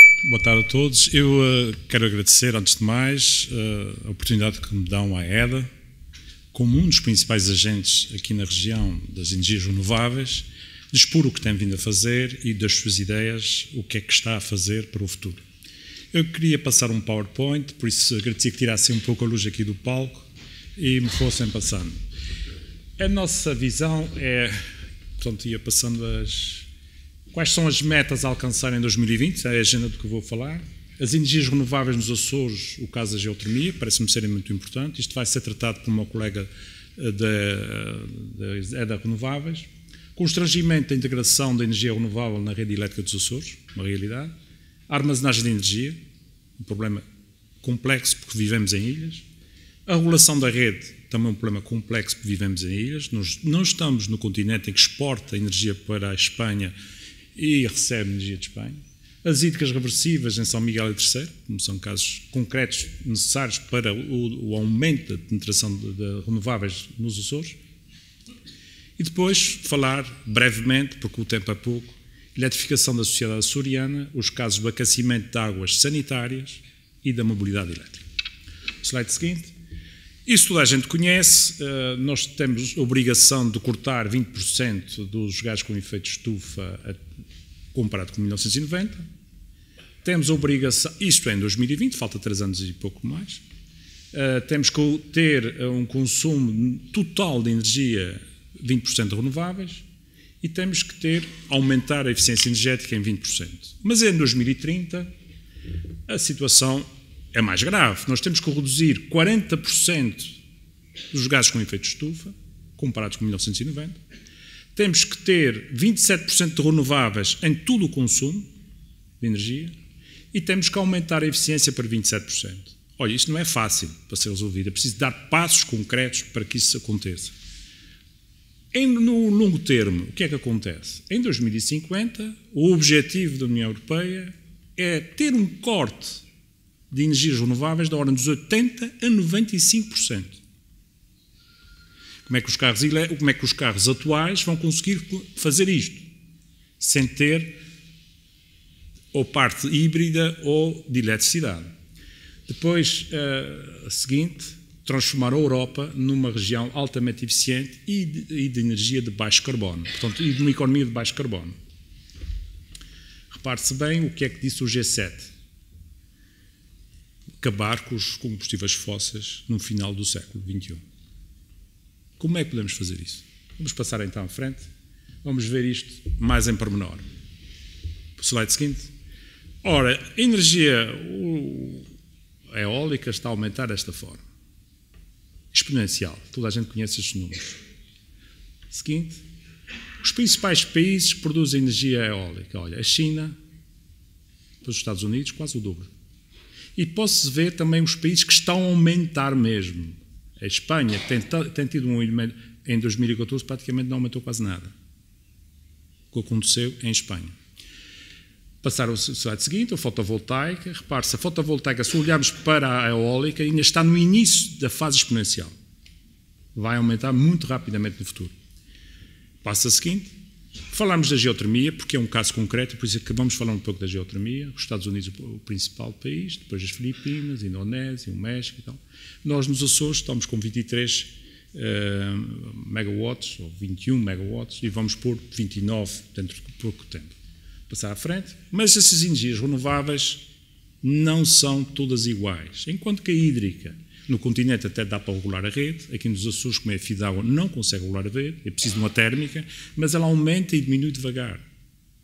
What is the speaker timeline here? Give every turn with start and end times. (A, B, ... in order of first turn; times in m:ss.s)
0:00.2-0:05.7 A
0:06.5-0:15.4 A
0:16.1-0:22.0 A
0:23.0-0:24.6 A
0:25.2-0:26.7 A
0:27.3-0:44.3 A
0:44.9-0:46.0 A
0:46.6-0:47.0 A
0:47.6-0:49.2 A
0:49.8-0:56.7 A
0:57.3-1:07.6 A
1:09.0-1:18.0 A
1:18.8-1:19.5 A
1:20.2-1:27.0 A
1:27.7-1:29.0 A
1:30.0-1:33.4 A
1:34.1-1:39.8 A
1:40.4-1:45.1 A
1:46.1-1:50.3 A
1:51.1-1:54.0 A
1:54.7-1:58.5 A
1:59.2-1:59.7 A
2:00.3-2:07.3 A
2:08.7-2:16.2 A
2:16.9-2:20.4 A
2:22.2-2:26.1 A
2:26.8-2:27.5 A
2:29.1-2:31.7 A
2:32.5-2:41.5 A
2:43.3-2:45.3 A
2:47.4-2:50.8 A
2:52.2-2:54.7 A
2:55.2-2:57.0 A
2:58.2-2:58.9 A
2:59.6-3:01.9 A
3:02.5-3:04.2 A
3:05.5-3:07.6 A
3:08.7-3:09.2 A
3:10.0-3:13.3 A
3:14.6-3:15.9 A
3:16.8-3:24.7 A
3:26.1-3:27.3 A
3:28.6-3:35.5 A
3:36.5-3:38.3 A
3:39.4-3:40.1 A
3:40.7-3:57.2 A
3:57.7-4:00.2 A
4:00.8-4:11.4 A